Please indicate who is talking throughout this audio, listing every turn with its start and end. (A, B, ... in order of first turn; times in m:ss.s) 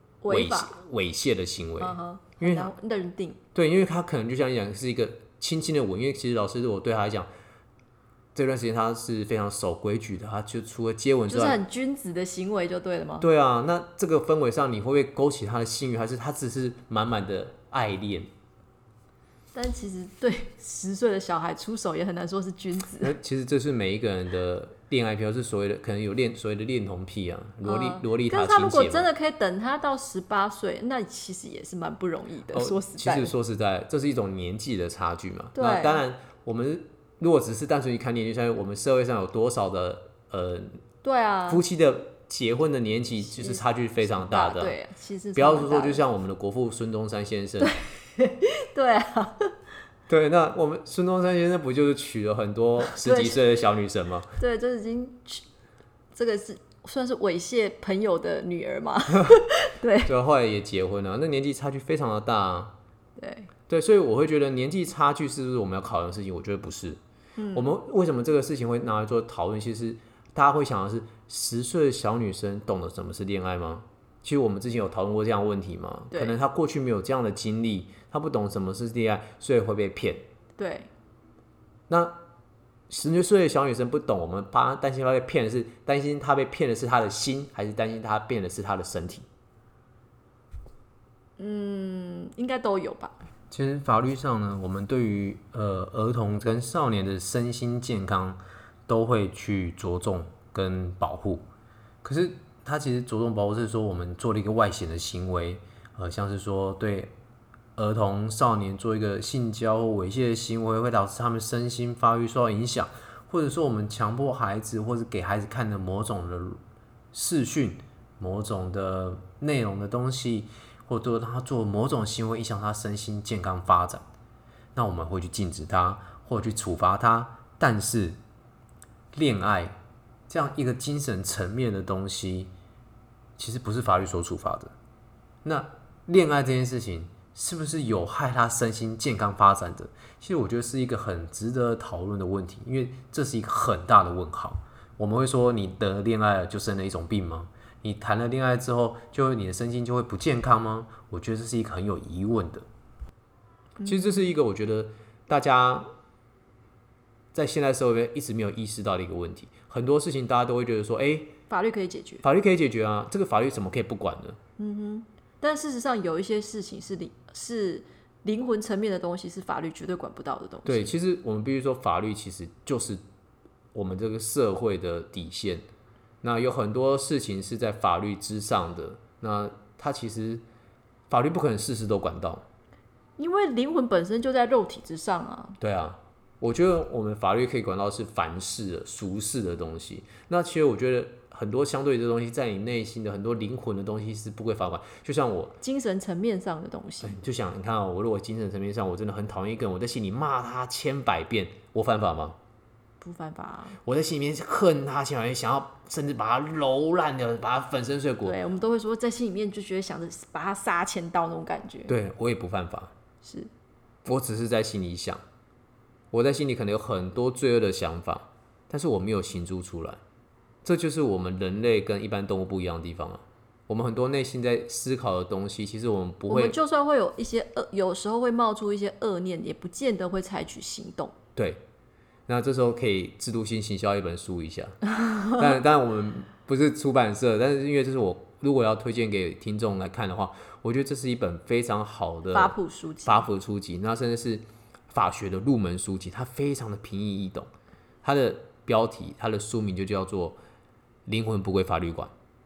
0:00.2-0:00.8 A
0:00.3-0:02.7 B
0:01.8-0:03.4 A
0:03.5-0:07.3 B
0:08.4-0:11.6 B
0:11.3-0:13.3 A
0:13.2-0:18.3 B
0:19.5-0:23.2 A
0:23.0-0:29.1 B
0:27.6-0:33.3 A
0:32.5-0:40.8 B
0:35.6-0:36.0 A
0:41.0-0:41.6 A
0:41.5-0:44.8 B
0:44.2-0:46.0 A
0:45.4-0:47.8 B
0:47.6-0:49.6 A
0:50.1-0:54.3 B
0:53.0-0:53.4 A
0:54.4-0:55.4 A
0:56.1-1:00.1 A
1:00.0-1:02.8 B
1:03.2-1:03.5 A
1:03.7-1:07.0 B
1:07.4-1:07.7 A
1:07.5-1:20.2 B
1:20.6-1:20.9 A
1:21.9-1:22.2 B
1:22.9-1:29.3 B
1:31.4-1:33.2 A
1:33.5-1:41.4 B
1:42.0-1:47.1 B
1:47.8-1:56.6 B
1:57.1-2:04.1 B
2:04.8-2:08.2 B
2:09.1-2:09.8 B
2:10.3-2:12.5 B
2:13.4-2:14.7 B
2:15.4-2:32.6 B
2:33.8-2:34.3 A
2:33.8-2:35.9 B
2:37.3-2:41.4 B
2:41.5-2:42.2 A
2:42.2-2:44.4 B
2:44.6-2:50.9 A
2:50.6-2:53.0 B
2:53.7-2:55.7 B
2:56.2-3:00.4 B
3:01.1-3:02.4 B
3:03.2-3:05.6 A
3:05.6-3:15.6 B
3:15.6-3:17.2 A
3:17.0-3:22.4 B
3:23.0-3:23.8 A
3:23.8-3:28.4 B
3:28.2-3:31.9 A
3:31.9-3:32.9 B
3:33.2-3:33.5 A
3:34.0-3:35.2 B
3:36.1-3:40.0 B
3:40.6-3:46.6 B
3:46.3-3:51.1 A
3:51.4-3:51.6 B
3:52.3-3:54.8 B
3:55.0-3:55.4 A
3:55.4-4:07.5 B
4:02.3-4:03.3 A
4:08.0-4:10.4 B
4:11.1-4:12.1 B